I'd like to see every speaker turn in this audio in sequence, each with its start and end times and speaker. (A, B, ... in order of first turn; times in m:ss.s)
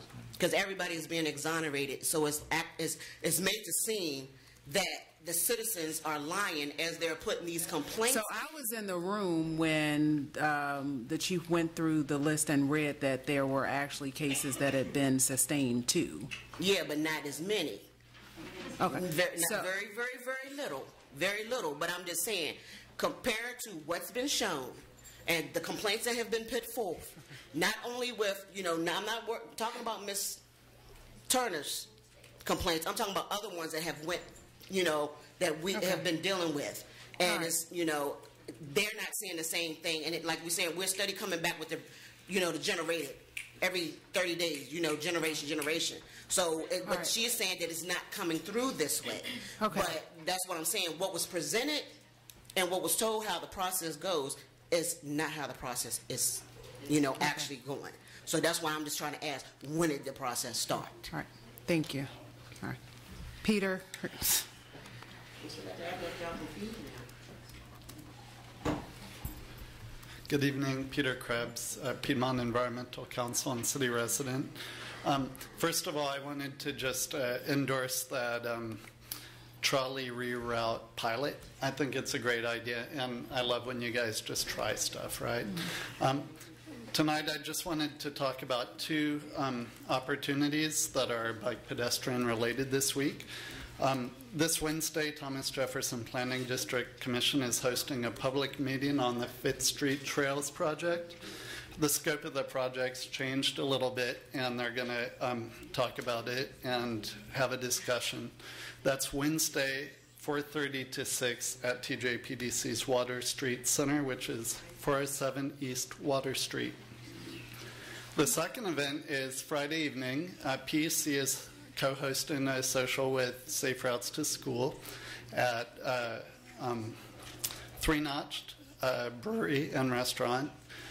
0:00.4-0:08.3 A
0:08.1-0:16.3 B
0:16.6-0:17.9 A
0:18.8-0:19.7 B
0:18.9-0:30.4 A
0:31.3-0:31.9 A
0:32.4-0:52.0 A
0:35.7-0:36.0 B
0:37.2-0:37.6 B
0:46.8-0:47.1 B
0:49.6-0:50.0 B
0:52.6-1:01.1 A
1:01.1-1:02.8 B
1:03.4-1:04.5 B
1:05.6-1:07.0 A
1:10.3-1:18.9 C
1:19.6-1:26.3 C
1:26.9-1:41.2 C
1:41.8-1:56.8 C
1:58.2-2:07.0 C
2:07.8-2:10.5 C